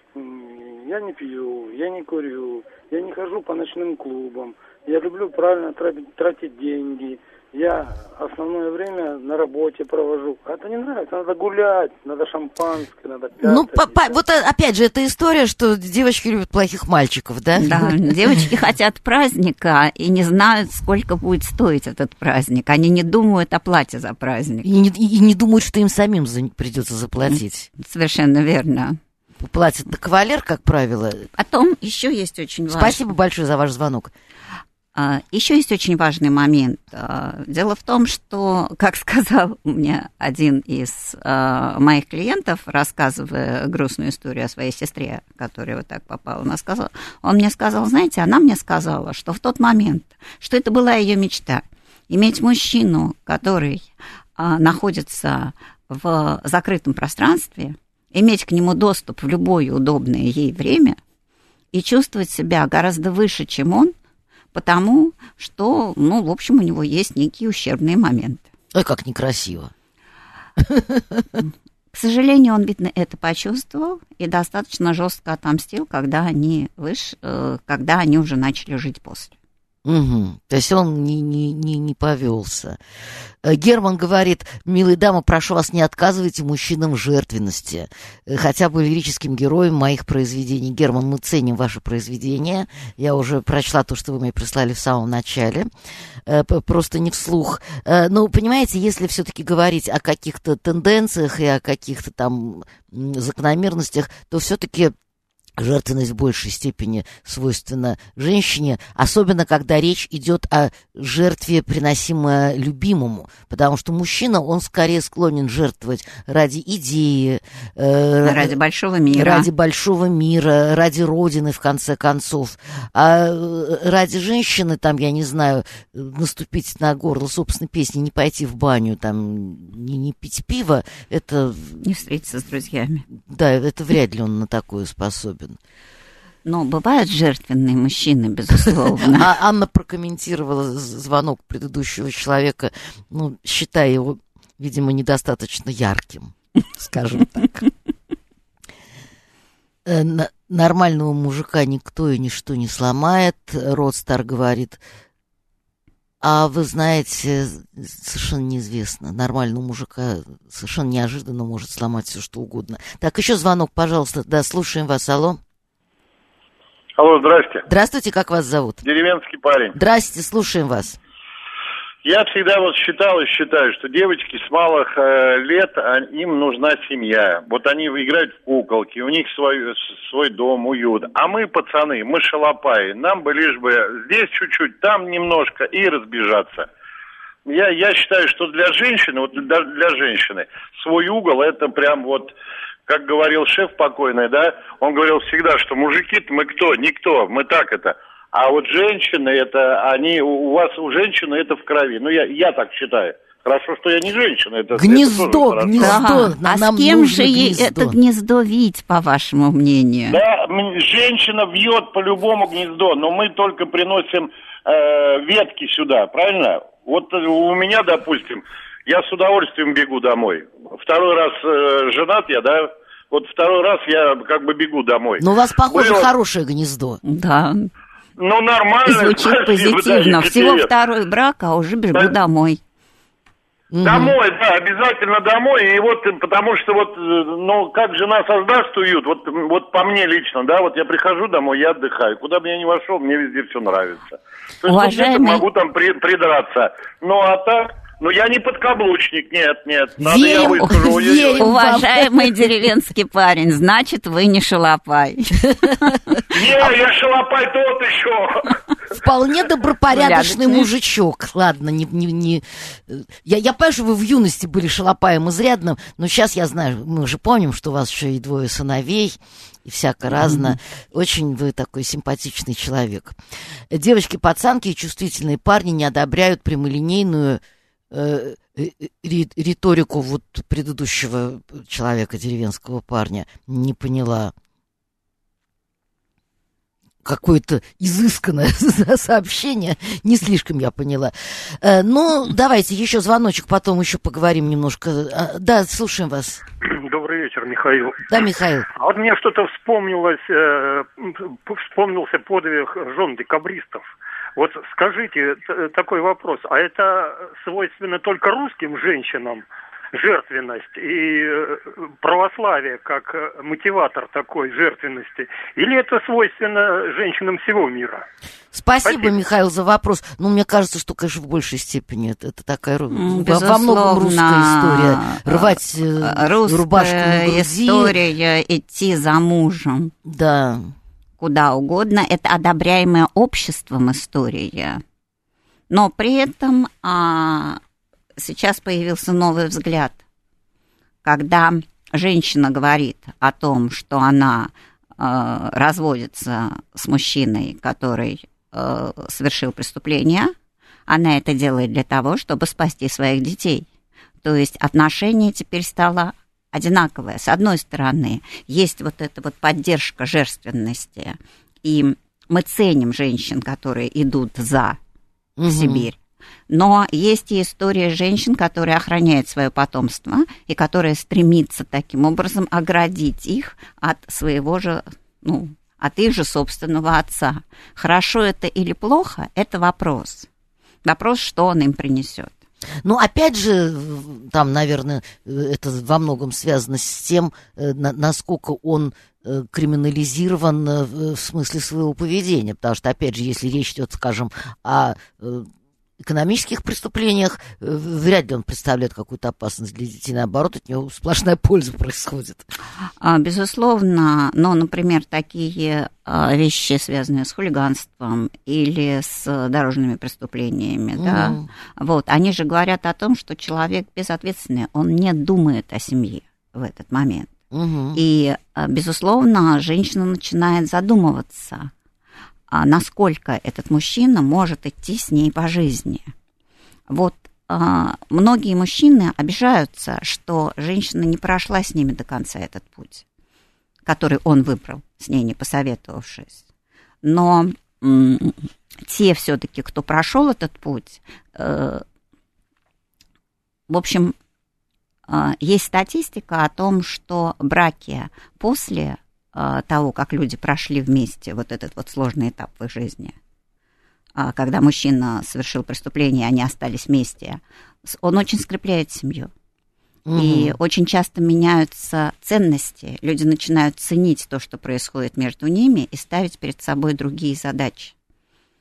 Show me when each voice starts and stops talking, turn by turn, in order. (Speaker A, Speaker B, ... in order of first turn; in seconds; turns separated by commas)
Speaker A: 0.1-14.2, Speaker B: 13.4-18.4, Speaker C: 17.6-24.7, Speaker B: 24.6-27.7, Speaker C: 27.3-29.0, Speaker B: 29.4-31.3, Speaker C: 31.4-33.0, Speaker B: 32.7-34.1, Speaker C: 35.0-61.0, Speaker C: 61.7-63.9, Speaker C: 64.5-68.5, Speaker B: 68.7-69.7, Speaker B: 70.6-71.4, Speaker C: 71.9-79.3, Speaker B: 79.8-82.8, Speaker B: 83.4-95.7, Speaker B: 96.3-104.9, Speaker B: 105.6-118.6, Speaker C: 118.2-119.5, Speaker B: 119.1-131.8, Speaker C: 131.8-133.1, Speaker B: 133.3-135.6, Speaker C: 136.4-139.3, Speaker B: 139.0-147.7, Speaker B: 149.8-154.8, Speaker B: 156.2-165.4, Speaker D: 167.0-167.7, Speaker B: 167.7-168.8, Speaker D: 168.8-169.8, Speaker B: 169.7-171.0, Speaker D: 172.0-186.7, Speaker D: 187.5-192.3, Speaker D: 192.9-206.0, Speaker B: 204.8-208.0, Speaker C: 205.8-210.2, Speaker D: 210.1-226.1, Speaker B: 225.2-227.0, Speaker C: 227.0-227.7, Speaker D: 228.2-230.7, Speaker C: 228.8-232.6, Speaker B: 233.7-234.2, Speaker D: 233.8-251.5, Speaker C: 244.7-245.4, Speaker B: 250.0-252.5, Speaker C: 251.4-255.9, Speaker B: 255.7-255.9, Speaker D: 256.3-258.5, Speaker B: 258.9-273.2, Speaker C: 259.9-260.7, Speaker C: 270.1-270.6, Speaker B: 273.7-284.3, Speaker B: 287.0-296.4, Speaker E: 296.6-298.2, Speaker B: 298.1-298.7, Speaker E: 298.7-303.9, Speaker E: 304.4-318.1, Speaker B: 318.5-328.0, Speaker E: 318.9-319.1, Speaker C: 322.9-329.9, Speaker B: 330.1-330.7, Speaker C: 331.2-334.8, Speaker C: 335.7-337.6, Speaker C: 338.2-340.0, Speaker C: 341.0-350.3, Speaker C: 350.9-353.7, Speaker C: 354.2-364.8, Speaker B: 365.4-365.9, Speaker C: 365.4-366.0, Speaker C: 366.5-380.3, Speaker C: 380.9-382.3, Speaker B: 382.8-395.5, Speaker B: 396.0-402.4, Speaker C: 403.0-417.3, Speaker B: 411.0-411.5, Speaker B: 417.5-418.0, Speaker C: 417.9-421.7, Speaker C: 422.5-426.1, Speaker C: 426.9-433.0, Speaker C: 433.9-436.4, Speaker C: 437.0-441.8, Speaker C: 443.7-444.1, Speaker C: 445.1-453.1, Speaker C: 454.2-459.3, Speaker B: 460.1-460.6, Speaker C: 460.2-467.9